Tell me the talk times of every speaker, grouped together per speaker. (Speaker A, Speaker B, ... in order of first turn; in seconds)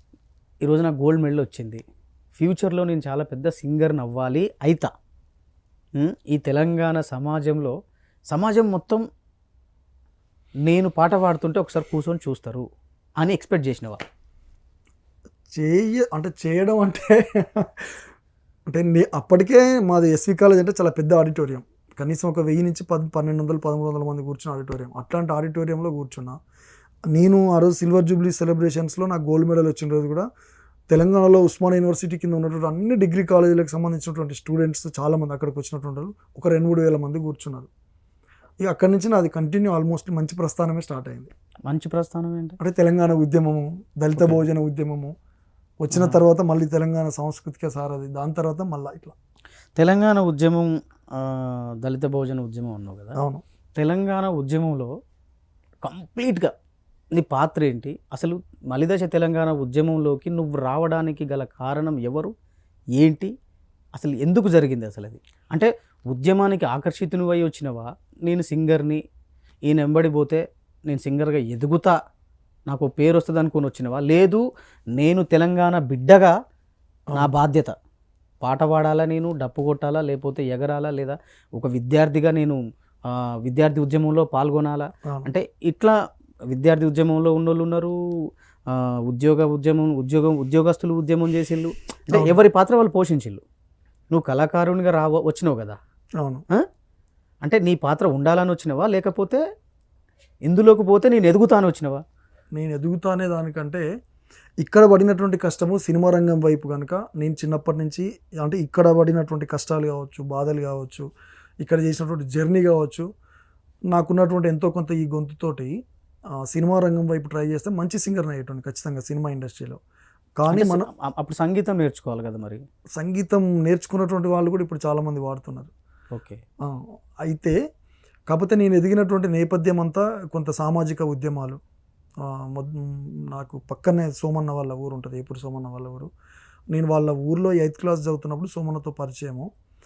Speaker A: 0.6-1.8, 2.4-4.9, 6.0-7.7, 8.3-9.0, 10.7-12.7, 13.2-14.0, 41.7-42.6, 45.9-46.2, 49.8-53.2, 53.8-54.9, 55.8-56.5, 57.1-62.3, 63.0-63.3, 63.9-69.0, 69.7-71.9, 72.7-74.4, 75.0-76.3, 77.1-77.7, 78.4-82.6, 83.5-85.9, 86.5-87.9, 88.7-93.4, 94.1-95.8, 97.4-99.4, 100.5-102.0, 120.5-122.6, 126.1-126.4
Speaker B: 15.6-17.9, 18.7-26.4, 27.1-30.3, 30.9-37.7, 38.6-41.3, 42.6-45.1, 45.8-49.1, 53.2-53.4, 85.0-85.3, 92.1-92.4, 102.5-103.8, 104.6-111.0, 111.6-113.0, 113.9-115.7, 116.5-119.8, 120.4-120.9, 123.0-125.7, 126.6-127.5, 128.3-131.6, 132.2-136.1, 136.7-139.5